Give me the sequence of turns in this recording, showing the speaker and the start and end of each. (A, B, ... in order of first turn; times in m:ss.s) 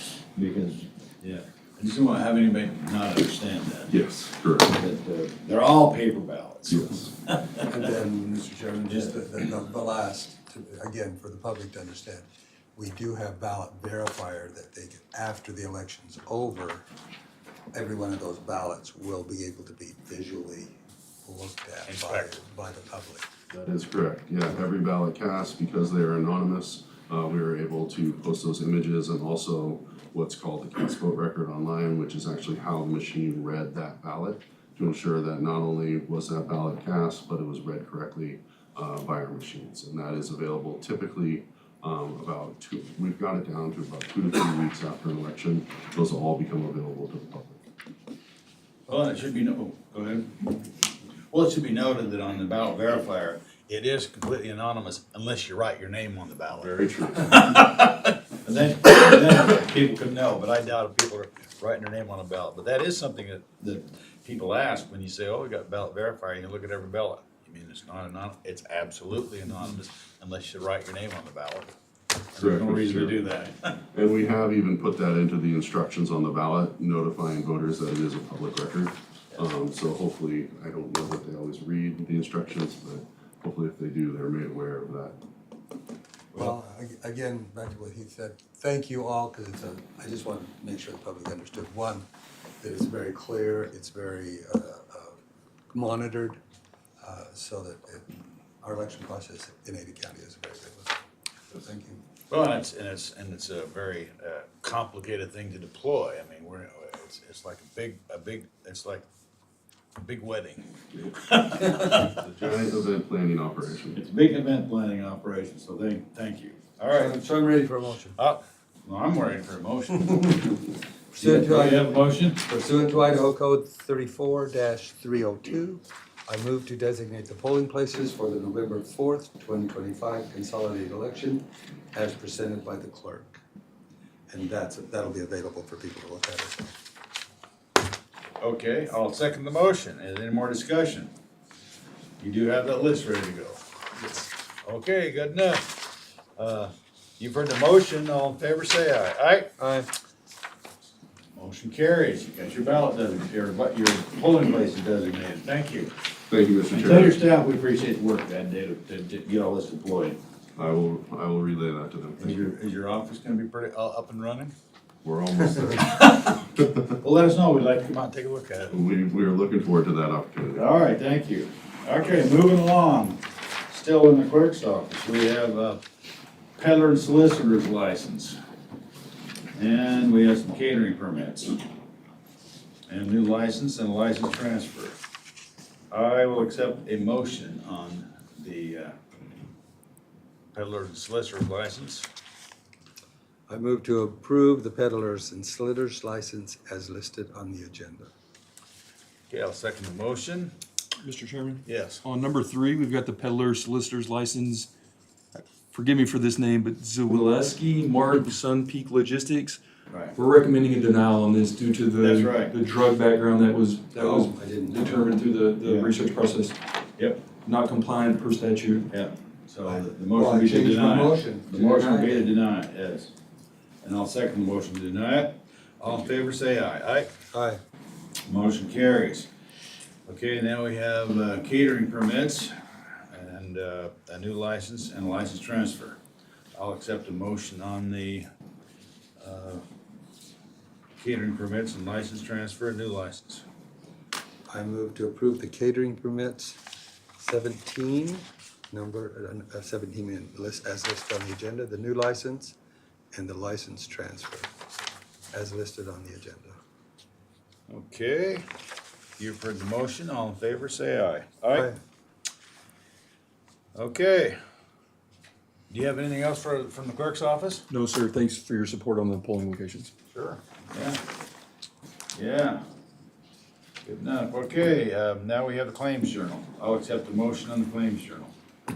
0:00.3-0:04.0 A
0:03.9-0:04.8 B
0:04.6-0:07.6 A
0:06.7-0:07.1 B
0:07.6-0:16.8 C
0:08.9-0:09.1 A
0:17.7-0:23.3 C
0:21.9-0:22.3 A
0:23.6-0:47.6 B
0:48.9-0:50.6 A
0:51.3-1:11.7 A
0:56.5-0:57.6 B
1:12.3-1:13.8 A
1:12.4-1:13.2 B
1:13.9-1:25.2 B
1:26.3-1:32.0 C
1:32.6-1:35.2 C
1:35.7-1:36.4 C
1:37.0-1:40.9 C
1:41.5-1:42.0 C
1:42.3-1:49.0 A
1:50.0-1:52.2 A
1:52.0-1:54.0 B
1:53.9-1:57.2 A
1:56.9-1:58.2 C
1:58.2-2:00.6 A
2:01.1-2:13.4 C
2:01.2-2:02.4 A
2:14.3-2:16.7 C
2:18.4-2:21.1 A
2:22.2-2:23.6 A
2:24.6-2:25.8 A
2:26.4-2:29.5 A
2:29.6-2:29.9 C
2:31.4-2:35.9 A
2:36.3-2:37.2 B
2:36.7-2:40.2 A
2:40.6-2:42.5 B
2:42.2-2:44.5 A
2:45.0-2:45.9 B
2:45.6-2:48.8 A
2:48.7-2:50.7 B
2:50.5-2:55.8 A
2:56.6-2:58.4 A
2:59.5-3:01.6 A
3:02.9-3:05.0 A
3:05.9-3:08.9 A
3:10.5-3:12.0 A
3:13.5-3:18.1 C
3:19.3-3:20.5 A
3:21.0-3:24.7 D
3:21.6-3:22.0 A
3:25.3-3:29.6 D
3:29.9-3:30.1 A
3:30.1-3:36.6 D
3:32.0-3:32.5 A
3:34.0-3:35.2 C
3:35.6-3:35.9 A
3:37.0-3:37.2 A
3:37.4-3:38.9 D
3:38.9-3:43.1 A
3:39.6-3:42.3 C
3:43.8-3:47.1 A
3:47.3-3:47.6 C
3:48.2-3:49.3 A
3:50.0-3:56.0 A
3:56.5-3:58.3 A
3:59.2-3:59.6 A
4:01.0-4:03.4 A
4:04.5-4:06.6 C
4:07.2-4:12.5 C
4:13.1-4:14.5 C
4:15.3-4:16.6 C
4:17.7-4:18.4 A
4:19.2-4:21.7 A
4:21.5-4:21.8 C
4:23.8-4:24.4 A
4:25.7-4:27.6 A
4:27.7-4:29.9 D
4:30.1-4:31.0 A
4:32.1-4:32.6 A
4:33.8-4:38.3 A